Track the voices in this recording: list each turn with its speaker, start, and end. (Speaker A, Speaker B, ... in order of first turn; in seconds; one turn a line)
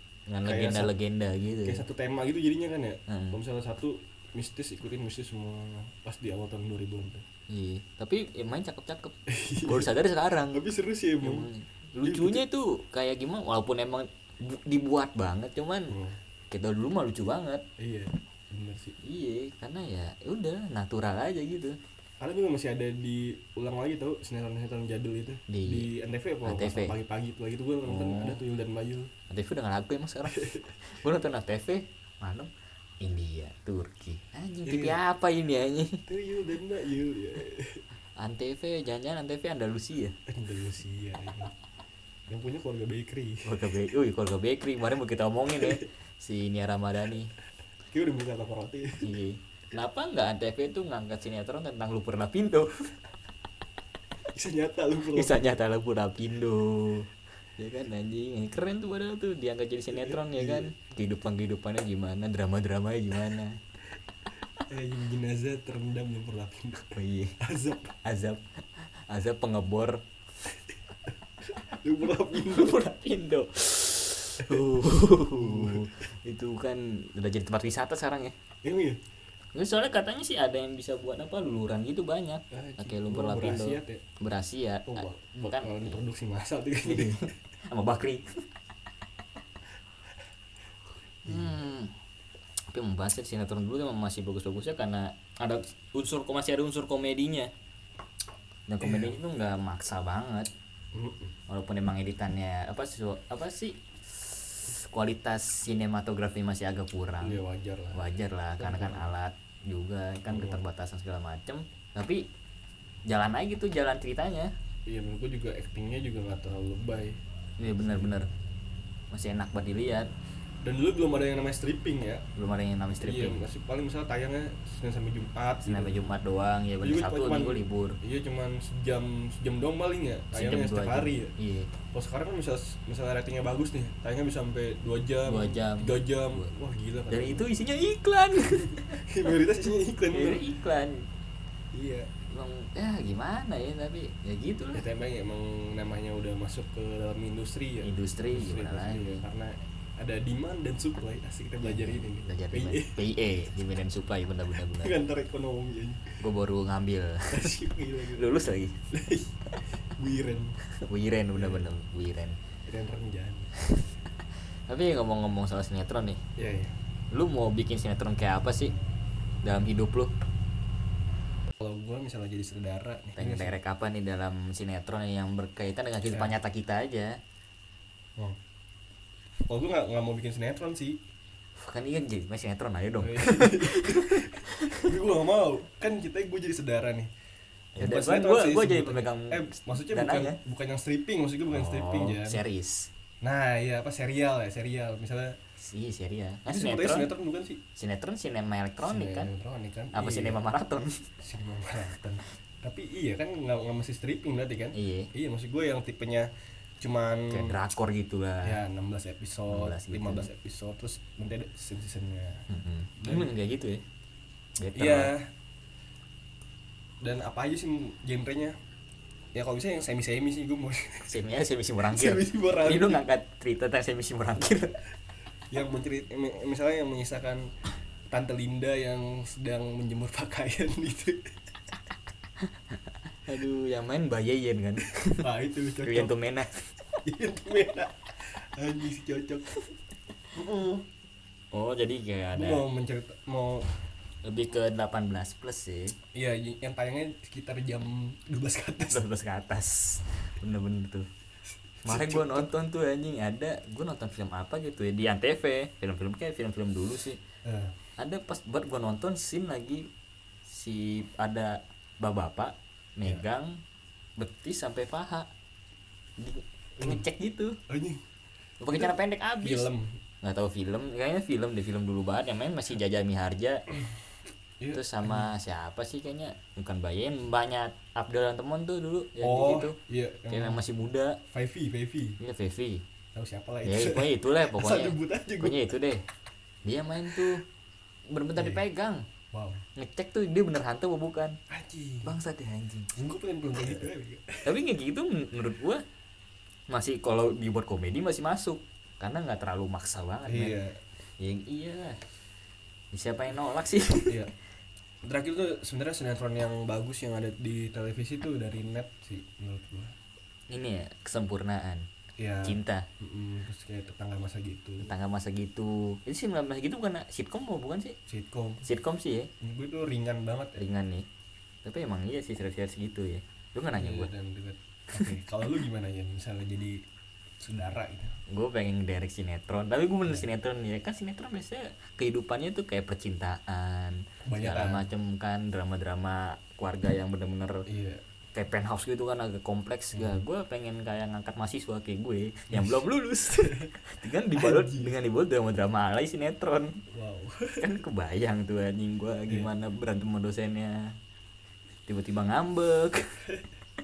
Speaker A: 0.3-1.8
Speaker B: 0.4-0.9
Speaker B: 1.6-7.2
Speaker A: 3.1-3.4
Speaker A: 7.5-10.6
Speaker B: 9.3-9.9
Speaker B: 10.5-11.5
Speaker A: 11.2-15.9
Speaker B: 12.0-12.4
Speaker B: 15.9-16.2
Speaker A: 16.5-17.6
Speaker B: 17.8-19.0
Speaker A: 19.0-21.8
Speaker B: 22.2-29.1
Speaker A: 25.5-25.9
Speaker A: 26.4-26.9
Speaker A: 27.8-28.4
Speaker A: 29.3-36.0
Speaker B: 30.3-30.7
Speaker B: 34.6-35.0
Speaker B: 36.1-37.8
Speaker A: 38.2-40.2
Speaker B: 40.3-41.5
Speaker B: 42.3-43.5
Speaker A: 43.4-47.3
Speaker B: 47.9-49.1
Speaker A: 49.0-52.9
Speaker B: 54.3-55.4
Speaker A: 55.1-63.6
Speaker B: 59.9-60.7
Speaker B: 64.7-68.0
Speaker A: 66.9-67.3
Speaker A: 68.0-70.0
Speaker B: 71.5-72.8
Speaker A: 72.3-78.3
Speaker B: 75.3-75.9
Speaker B: 78.6-79.0
Speaker A: 79.5-86.0
Speaker B: 82.5-84.0
Speaker B: 84.9-87.3
Speaker A: 86.8-88.3
Speaker B: 91.2-91.6
Speaker A: 91.2-91.9
Speaker A: 92.7-97.5
Speaker A: 98.7-100.5
Speaker B: 98.8-99.2
Speaker B: 100.9-101.3
Speaker A: 101.5-107.4
Speaker B: 107.2-109.1
Speaker A: 107.9-112.3
Speaker B: 110.3-110.6
Speaker A: 113.1-114.5
Speaker B: 114.9-117.2
Speaker A: 117.6-118.3
Speaker B: 117.7-118.2
Speaker A: 119.1-120.1
Speaker B: 120.6-122.2
Speaker A: 122.3-123.4
Speaker B: 123.0-126.0
Speaker A: 125.7-128.0
Speaker B: 126.8-131.3
Speaker A: 130.3-131.7
Speaker B: 131.9-137.5
Speaker A: 135.2-136.5
Speaker A: 137.1-139.0
Speaker B: 138.6-140.5
Speaker A: 140.1-141.1
Speaker B: 141.7-142.1
Speaker A: 142.3-144.8
Speaker B: 144.7-153.0
Speaker A: 147.8-149.2
Speaker A: 151.6-155.0
Speaker B: 154.7-156.2
Speaker A: 156.2-158.8
Speaker B: 157.3-158.3
Speaker B: 158.9-160.6
Speaker A: 160.7-162.4
Speaker B: 161.3-161.7
Speaker B: 162.7-163.5
Speaker A: 163.6-163.9
Speaker A: 164.7-166.2
Speaker B: 166.4-166.8
Speaker A: 167.1-168.7
Speaker A: 169.4-170.1
Speaker B: 171.6-173.5
Speaker A: 173.2-177.2
Speaker B: 176.1-176.3
Speaker B: 179.5-181.0
Speaker A: 181.6-184.9
Speaker B: 183.0-187.1
Speaker A: 187.8-190.4
Speaker B: 187.8-192.4
Speaker A: 191.5-192.9
Speaker B: 193.2-195.4
Speaker A: 195.6-197.1
Speaker B: 196.5-197.6
Speaker A: 197.8-199.3
Speaker B: 198.8-200.4
Speaker A: 199.9-201.1
Speaker B: 201.2-207.6
Speaker A: 204.7-205.1
Speaker A: 207.3-208.6
Speaker B: 208.4-212.5
Speaker A: 209.5-210.3
Speaker A: 212.5-213.8
Speaker B: 213.0-213.3
Speaker A: 214.6-215.2
Speaker B: 214.7-215.3
Speaker B: 217.0-218.5
Speaker B: 219.3-221.2
Speaker A: 221.1-224.8
Speaker B: 221.8-223.0
Speaker B: 225.5-227.5
Speaker B: 228.1-231.3
Speaker A: 232.4-235.3
Speaker B: 235.2-236.1
Speaker A: 235.8-236.7
Speaker B: 237.0-239.6
Speaker B: 240.3-240.8
Speaker A: 241.5-242.6
Speaker B: 242.3-243.7
Speaker A: 244.2-246.0
Speaker B: 246.1-249.0
Speaker A: 248.9-251.1
Speaker B: 251.8-252.5
Speaker A: 251.8-257.2
Speaker B: 257.4-257.7
Speaker A: 258.0-259.9
Speaker A: 260.4-263.6
Speaker A: 264.2-265.3
Speaker A: 266.2-267.6
Speaker B: 266.8-267.0
Speaker B: 267.7-268.0
Speaker A: 268.6-269.7
Speaker B: 268.7-270.0
Speaker A: 270.2-273.6
Speaker B: 274.6-275.3
Speaker A: 274.7-279.8
Speaker B: 279.2-280.6
Speaker A: 280.3-281.2
Speaker B: 281.3-282.2
Speaker A: 282.2-282.8
Speaker B: 283.1-285.7
Speaker A: 283.6-286.0
Speaker A: 286.6-287.4
Speaker A: 288.1-289.1
Speaker B: 288.4-288.6
Speaker B: 289.3-289.6
Speaker A: 289.8-291.4
Speaker B: 291.5-292.1
Speaker A: 292.0-292.9
Speaker B: 292.9-294.6
Speaker A: 294.4-295.8
Speaker A: 296.7-300.6
Speaker B: 300.2-300.8
Speaker A: 301.2-302.0
Speaker A: 302.9-304.2
Speaker B: 305.0-309.9
Speaker A: 310.5-311.9
Speaker B: 312.2-314.9
Speaker A: 312.4-312.9
Speaker A: 314.8-318.0
Speaker B: 318.1-318.6
Speaker A: 318.6-319.3
Speaker B: 319.4-320.6
Speaker A: 320.6-321.1
Speaker A: 321.6-324.1
Speaker B: 323.7-326.8
Speaker B: 327.4-328.2
Speaker A: 328.3-337.6
Speaker B: 334.2-334.8
Speaker B: 337.7-338.0
Speaker A: 338.3-346.8
Speaker B: 339.9-340.2
Speaker B: 342.5-342.8
Speaker B: 343.4-344.9
Speaker B: 346.9-347.7
Speaker A: 347.6-351.0
Speaker A: 351.9-353.1